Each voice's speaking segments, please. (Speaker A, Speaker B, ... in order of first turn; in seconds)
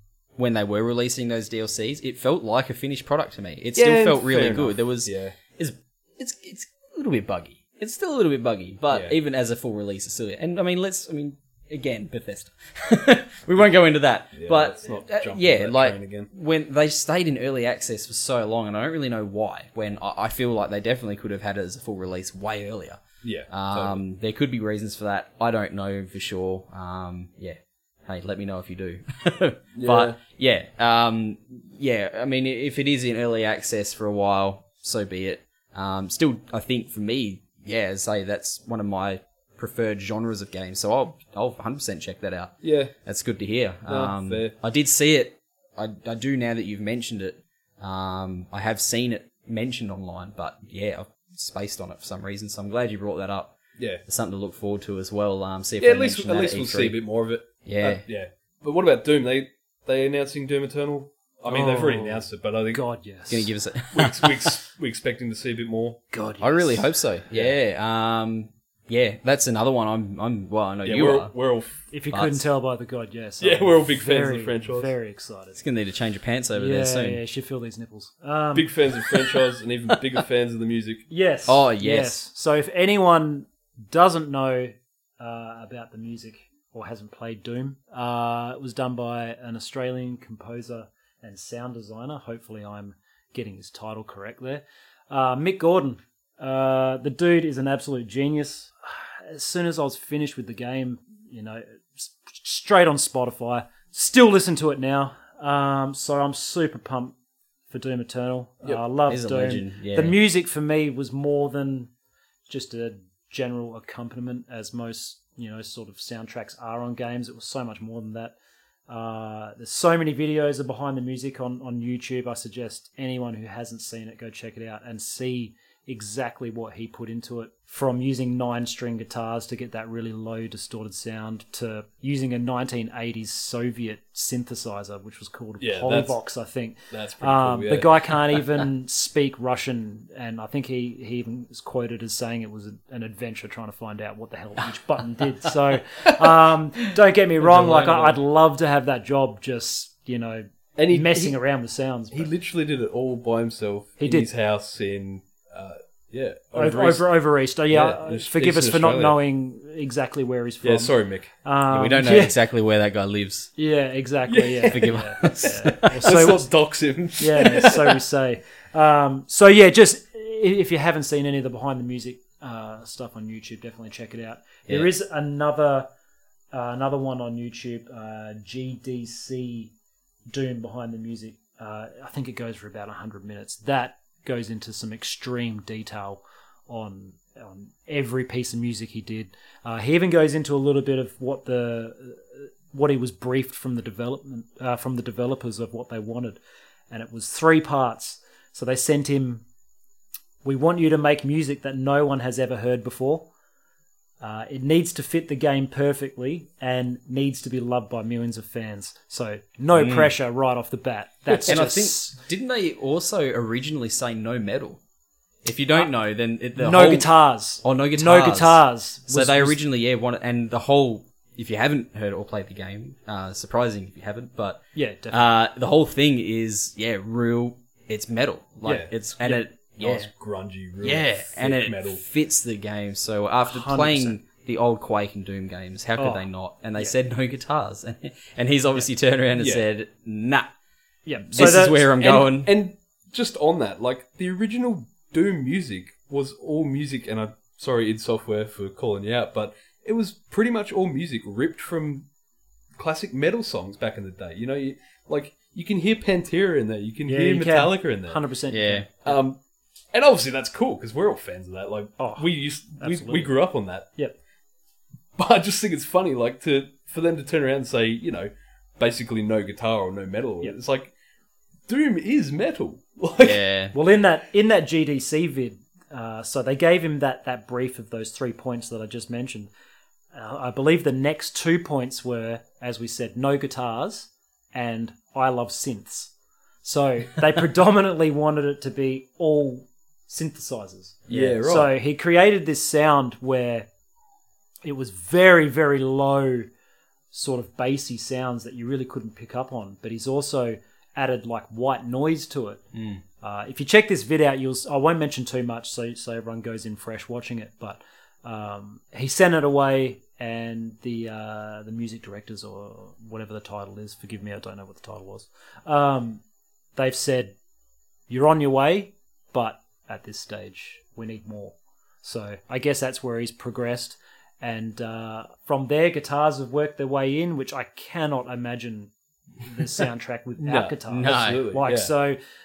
Speaker A: 0.4-57.0, 57.6-58.0, 63.3-64.6, 66.4-71.3, 72.1-72.5, 75.6-77.2, 81.5-82.2, 109.1-110.2, 161.7-163.5, 164.7-166.1, 174.7-174.9, 209.7-210.1, 211.4-214.8, 215.4-230.1, 230.8-240.5, 241.3-242.5, 258.5-258.9, 273.2-273.8, 302.7-303.0, 330.9-331.5
Speaker B: 3.8-5.3, 8.9-9.2, 14.4-16.3, 23.2-24.0, 29.8-30.2, 42.6-42.9, 43.9-44.5, 53.8-54.0, 55.8-62.8, 63.9-66.0, 67.3-67.6, 70.8-71.8, 73.4-74.9, 78.5-81.0, 135.6-136.2, 136.9-138.4, 147.4-148.2, 150.8-151.4, 152.1-157.1, 157.7-159.2, 160.6-161.3, 164.3-168.0, 228.6-232.0, 239.4-239.7, 241.4-252.1, 252.8-258.2, 259.0-259.4, 259.9-263.9, 265.2-270.9, 271.7-273.4, 291.1-291.7, 330.4-331.9
Speaker C: 61.5-63.5, 66.1-66.9, 71.9-75.6, 76.5-78.7, 81.1-107.2, 107.7-111.9, 112.5-118.3, 118.9-152.3, 154.0-154.3, 156.5-162.3, 163.6-166.5, 167.2-175.9, 176.5-179.7, 180.3-196.4, 196.9-199.4, 200.4-203.3, 204.2-212.2, 216.6-219.6, 224.8-225.3, 233.4-234.2, 236.0-236.9, 241.1-241.9, 257.1-258.9, 262.0-263.4, 273.7-279.5, 280.1-286.1, 286.6-293.7, 294.6-296.5, 297.1-302.6, 303.2-316.2, 316.8-317.4, 318.1-328.9, 329.4-332.2